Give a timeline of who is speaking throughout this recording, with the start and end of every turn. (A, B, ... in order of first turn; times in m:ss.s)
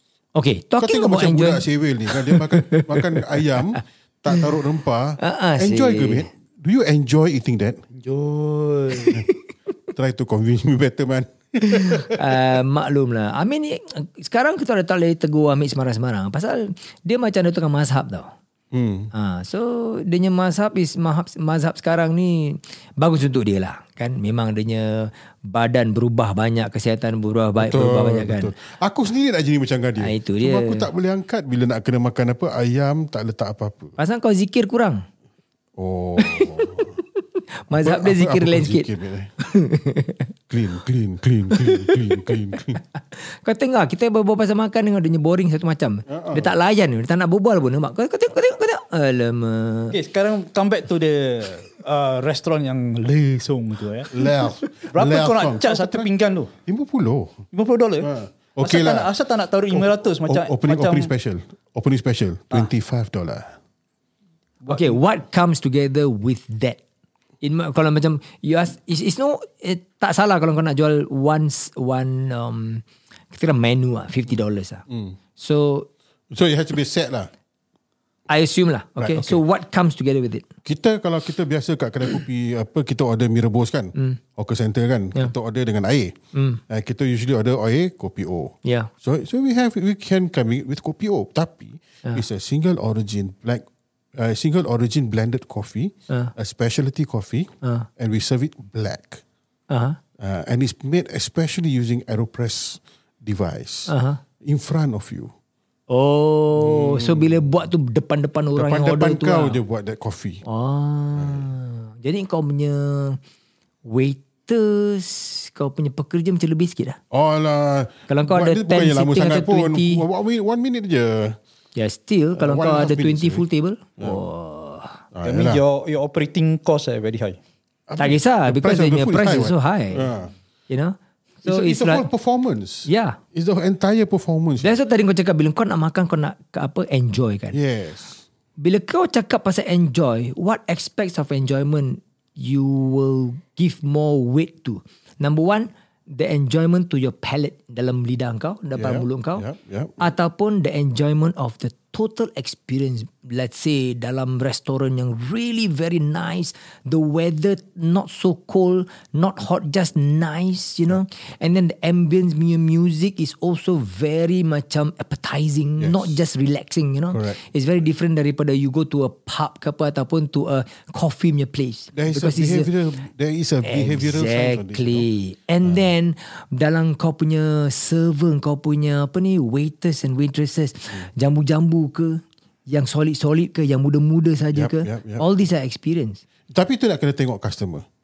0:00.4-0:03.8 A
0:00.8-0:07.8 B
0:05.2-0:06.3 A
0:07.9-0:09.2 C
0:09.0-0:09.4 A
0:10.0-0:12.4 B
0:11.6-0:18.3 A
0:18.7-0:19.1 B
0:19.1-0:28.5 A
0:27.6-0:34.0 B
0:30.0-0:30.9 A
0:34.0-0:35.0 A
0:35.8-0:37.0 B
0:36.2-0:36.8 A
0:37.5-0:38.9 A
0:37.7-0:39.3 B
0:39.4-0:40.3 A
0:40.5-0:42.8 B
0:41.5-0:42.3 A
0:43.1-0:50.0 A
0:46.1-0:46.5 B
0:49.9-0:54.1 C
0:54.1-0:56.1 B
0:54.9-0:56.5 C
0:56.7-0:57.4 B
0:57.5-1:01.1 C
0:58.0-0:59.1 B
0:59.7-1:03.6 B
1:04.7-1:06.8 A
1:07.4-1:14.8 A
1:14.9-1:15.2 B
1:15.4-1:15.9 A
1:16.3-1:17.3 B
1:18.3-1:20.5 A
1:19.0-1:19.4 B
1:20.6-1:26.2 B
1:26.3-1:26.6 A
1:26.7-1:33.6 B
1:28.6-1:28.9 A
1:34.2-1:39.2 B
1:39.7-1:40.0 A
1:40.2-1:45.3 B
1:43.9-1:44.2 A
1:45.9-1:49.6 A
1:46.6-1:47.5 B
1:48.6-1:50.4 B
1:50.4-1:53.2 A
1:51.2-1:51.5 B
1:53.8-1:57.0 A
1:57.1-2:01.4 B
1:58.1-2:00.0 A
2:01.8-2:05.0 A
2:02.4-2:03.4 B
2:05.1-2:05.6 B
2:05.2-2:07.4 C
2:07.9-2:10.3 B
2:08.0-2:10.1 A
2:10.7-2:12.1 A
2:11.4-2:14.7 B
2:12.9-2:13.2 A
2:14.6-2:17.6 A
2:17.5-2:18.2 B
2:18.6-2:29.5 A
2:28.8-2:30.1 B
2:30.0-2:52.7 A
2:45.8-2:46.2 B
2:47.1-2:47.4 B
2:51.9-2:55.1 B
2:53.6-3:06.2 A
3:04.5-3:05.3 B
3:06.5-3:07.9 B